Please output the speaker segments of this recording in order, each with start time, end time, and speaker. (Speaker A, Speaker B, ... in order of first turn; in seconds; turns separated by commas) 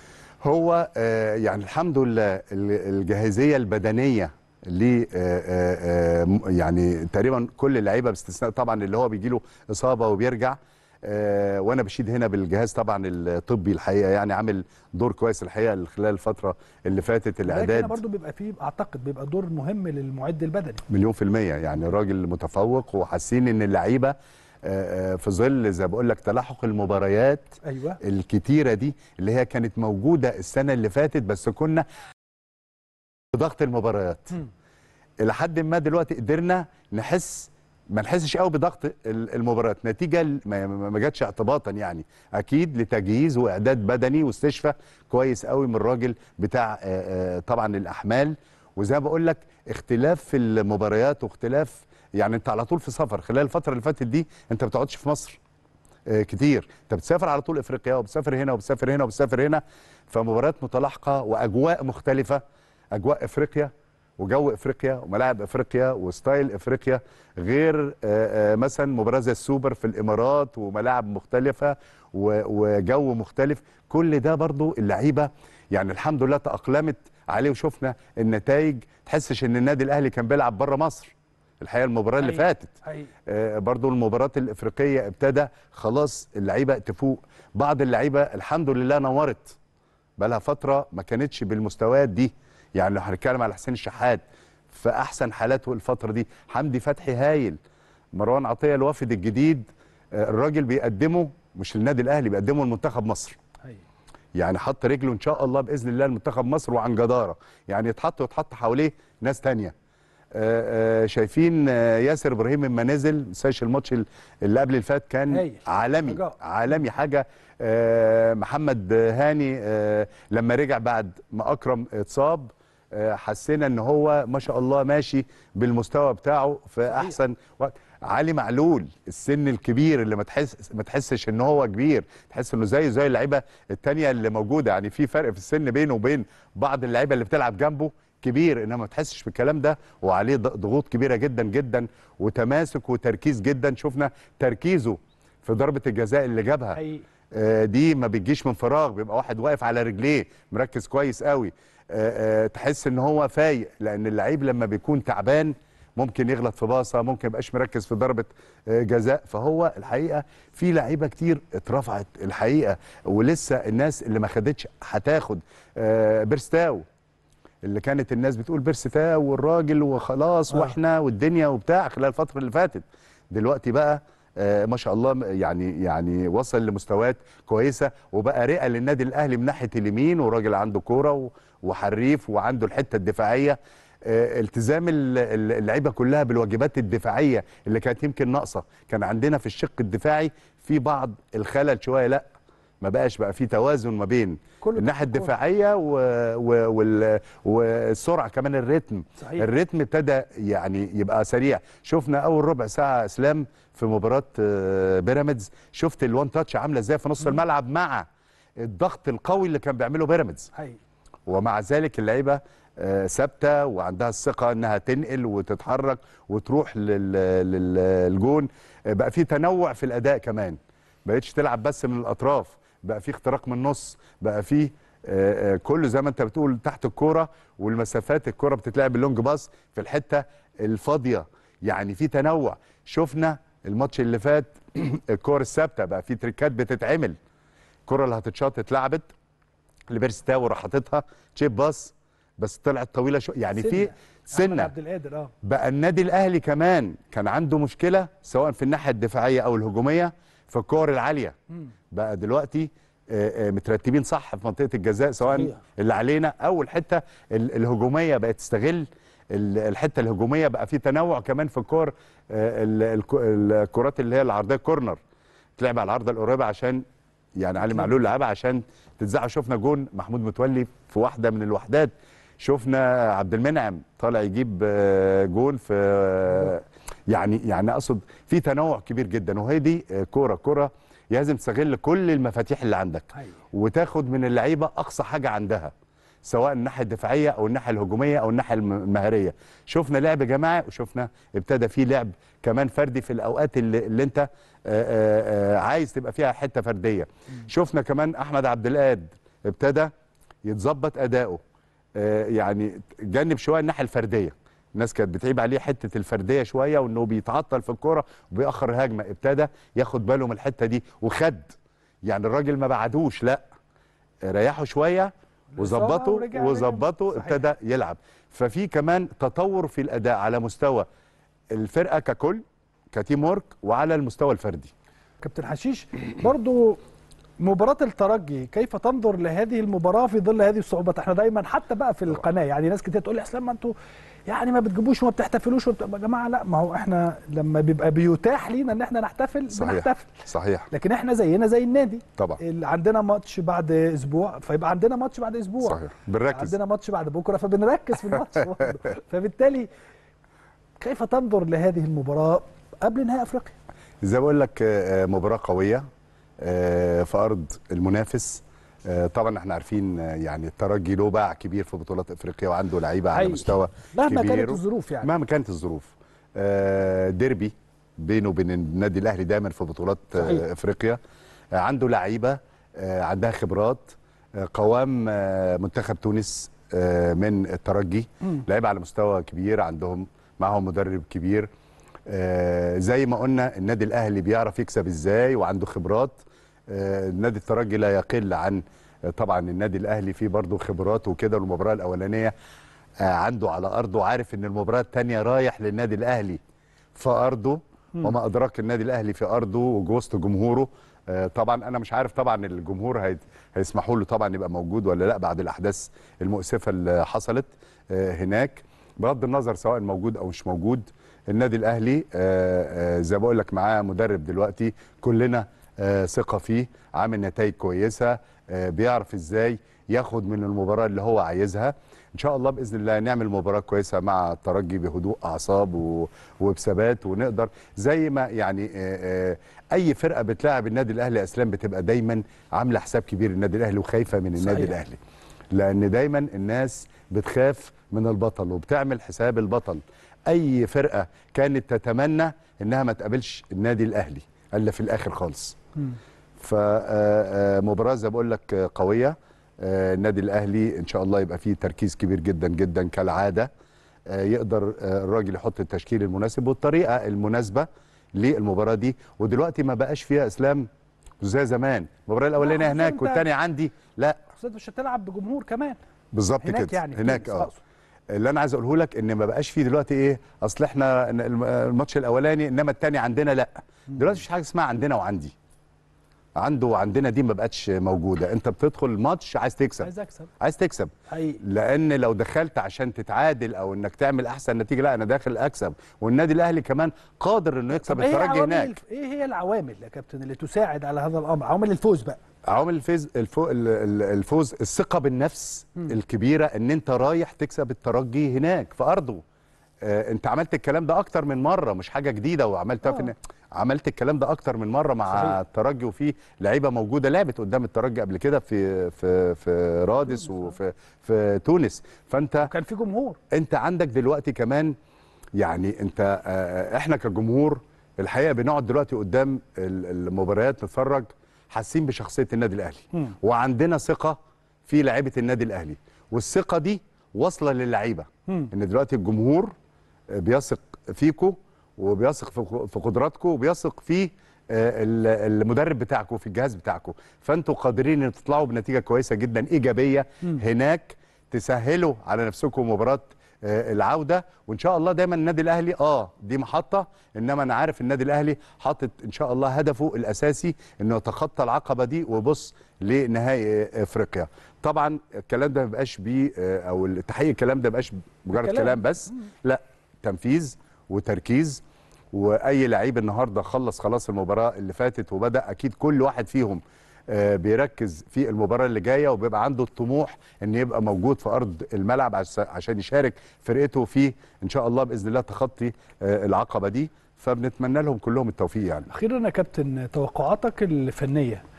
Speaker A: 0.4-18.0, Speaker B: 17.5-20.8, Speaker A: 20.9-31.9, Speaker B: 27.6-28.0, Speaker A: 33.3-34.4, Speaker A: 35.2-55.4, Speaker A: 56.1-62.4, Speaker A: 62.9-82.8, Speaker B: 82.2-83.1, Speaker A: 83.3-89.6, Speaker A: 90.2-97.6, Speaker A: 98.1-103.4, Speaker A: 104.4-109.7, Speaker A: 110.3-146.8, Speaker B: 115.3-116.4, Speaker B: 146.8-147.1, Speaker A: 147.3-166.9, Speaker A: 167.6-192.3, Speaker B: 170.5-170.8, Speaker A: 192.8-208.1, Speaker B: 194.6-195.3, Speaker B: 199.2-199.5, Speaker A: 208.6-210.5, Speaker B: 210.5-210.8, Speaker A: 211.3-237.2, Speaker A: 237.9-239.1, Speaker A: 239.9-244.7, Speaker B: 243.5-245.3, Speaker A: 245.4-251.3, Speaker A: 251.9-265.0, Speaker B: 255.2-255.6, Speaker A: 265.6-266.8, Speaker A: 267.4-285.7, Speaker B: 283.1-283.4, Speaker A: 286.2-299.9, Speaker A: 300.4-301.4, Speaker A: 302.0-311.5, Speaker A: 312.1-313.4, Speaker A: 314.2-320.9, Speaker B: 315.6-317.4, Speaker A: 321.5-324.7, Speaker B: 325.2-326.8, Speaker B: 327.4-333.7, Speaker B: 334.3-340.1, Speaker A: 339.5-340.7, Speaker B: 340.7-345.8, Speaker A: 345.6-346.6, Speaker B: 346.3-349.7, Speaker A: 348.2-348.7, Speaker B: 350.8-353.6, Speaker A: 354.0-355.8, Speaker A: 356.4-371.0, Speaker B: 363.1-365.1, Speaker B: 370.2-370.5, Speaker A: 371.5-381.5, Speaker A: 382.1-392.3, Speaker A: 393.0-396.4, Speaker A: 396.9-435.0, Speaker B: 434.4-434.8, Speaker A: 435.5-445.6, Speaker A: 446.4-453.5, Speaker A: 454.1-460.7, Speaker A: 461.2-464.2, Speaker B: 462.4-463.3, Speaker B: 464.4-465.8, Speaker A: 466.1-467.5, Speaker B: 466.4-467.6, Speaker A: 468.1-475.4, Speaker A: 476.4-488.8, Speaker B: 479.8-480.3, Speaker B: 481.1-481.4, Speaker B: 487.8-492.2, Speaker A: 492.5-499.2, Speaker A: 499.8-512.5, Speaker B: 505.1-505.4, Speaker B: 512.4-513.2, Speaker A: 513.3-514.7, Speaker A: 515.4-529.5, Speaker A: 530.1-578.9, Speaker B: 558.3-559.3, Speaker B: 578.9-581.4